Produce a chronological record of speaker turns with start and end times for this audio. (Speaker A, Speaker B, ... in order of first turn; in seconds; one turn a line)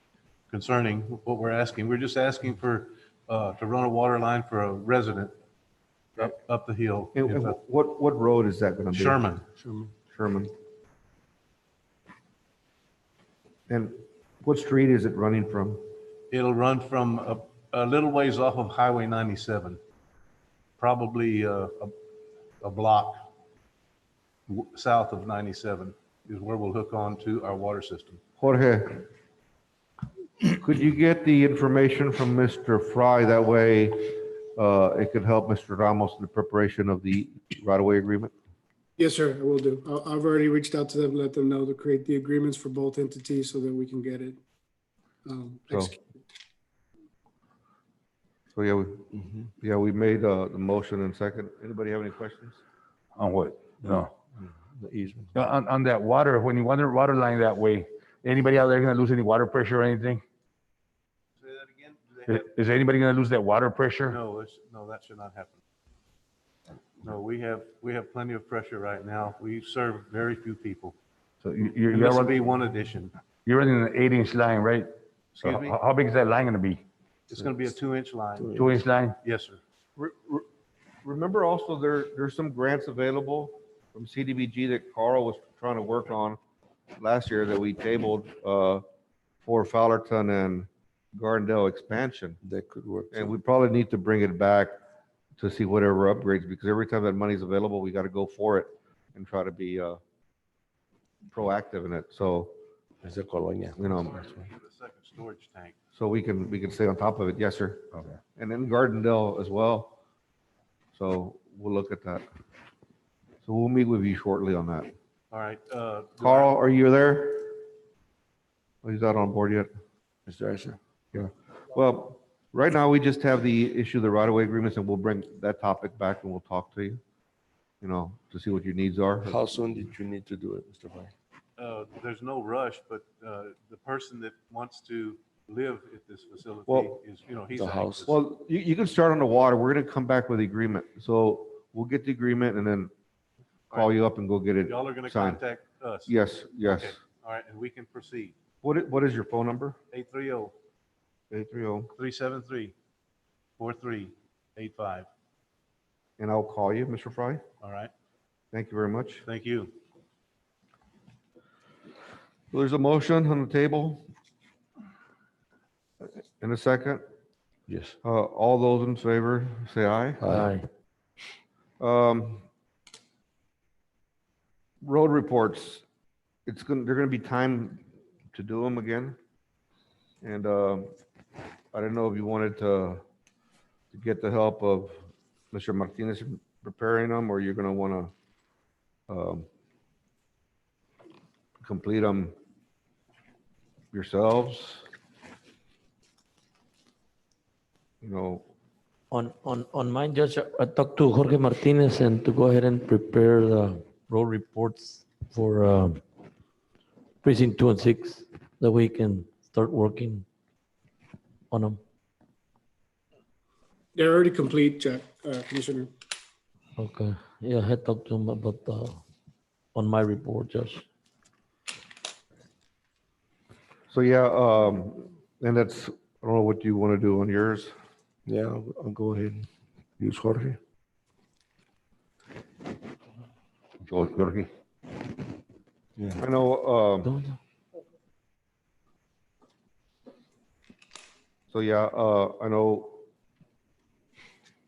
Speaker A: 0.5-5.3
Speaker A: 6.2-7.6
Speaker B: 7.1-9.3
Speaker A: 8.9-9.4
Speaker C: 9.6-9.9
Speaker B: 10.1-10.5
Speaker B: 13.7-15.8
Speaker A: 16.3-19.8
Speaker A: 20.8-21.9
Speaker A: 22.6-23.3
Speaker A: 24.5-28.2
Speaker B: 28.4-29.1
Speaker B: 30.5-38.3
Speaker C: 39.0-44.4
Speaker C: 45.2-46.0
Speaker B: 48.5-52.6
Speaker D: 53.1-54.1
Speaker E: 54.4-55.3
Speaker D: 55.3-60.2
Speaker A: 61.4-62.4
Speaker D: 62.3-64.2
Speaker A: 64.1-65.6
Speaker A: 67.0-71.0
Speaker D: 71.4-72.4
Speaker A: 71.9-73.1
Speaker D: 73.5-74.9
Speaker A: 75.3-75.8
Speaker D: 75.4-76.8
Speaker A: 77.3-78.6
Speaker D: 78.5-79.2
Speaker A: 79.2-79.6
Speaker B: 80.0-80.5
Speaker B: 81.0-86.4
Speaker B: 87.0-88.8
Speaker B: 89.4-92.4
Speaker E: 92.4-93.3
Speaker B: 93.1-94.7
Speaker B: 95.4-100.0
Speaker B: 101.3-102.5
Speaker E: 103.0-104.5
Speaker B: 103.8-104.1
Speaker A: 103.9-105.7
Speaker B: 105.9-107.8
Speaker B: 108.3-109.9
Speaker B: 110.9-112.2
Speaker B: 113.4-114.9
Speaker A: 115.3-116.5
Speaker B: 116.2-117.6
Speaker B: 118.8-119.7
Speaker E: 120.3-120.8
Speaker B: 121.1-127.0
Speaker B: 127.8-129.4
Speaker E: 129.2-131.1
Speaker A: 131.6-138.2
Speaker B: 136.7-136.9
Speaker E: 137.5-138.1
Speaker B: 138.1-142.9
Speaker B: 143.7-145.4
Speaker A: 144.7-148.3
Speaker B: 146.1-147.0
Speaker B: 148.6-149.8
Speaker A: 149.9-150.5
Speaker B: 151.3-151.9
Speaker A: 151.9-152.7
Speaker A: 153.6-155.1
Speaker B: 156.2-157.4
Speaker A: 157.6-157.9
Speaker B: 158.5-159.2
Speaker A: 159.2-159.8
Speaker B: 162.5-164.0
Speaker B: 166.4-167.0
Speaker E: 167.7-167.9
Speaker B: 168.0-170.3
Speaker E: 170.2-170.5
Speaker B: 171.8-172.4
Speaker B: 174.8-175.8
Speaker B: 176.4-179.2
Speaker B: 180.2-180.9
Speaker B: 181.7-183.0
Speaker B: 183.9-185.0
Speaker B: 185.5-188.1
Speaker B: 189.1-189.4
Speaker B: 191.6-192.3
Speaker B: 193.9-194.8
Speaker B: 198.0-198.5
Speaker F: 199.1-205.9
Speaker F: 207.2-210.2
Speaker F: 211.5-211.8
Speaker C: 213.9-215.9
Speaker F: 216.8-219.0
Speaker F: 219.8-220.8
Speaker B: 223.9-227.7
Speaker E: 228.2-229.4
Speaker E: 230.0-230.6
Speaker D: 233.8-234.5
Speaker B: 236.2-237.1
Speaker B: 241.5-243.0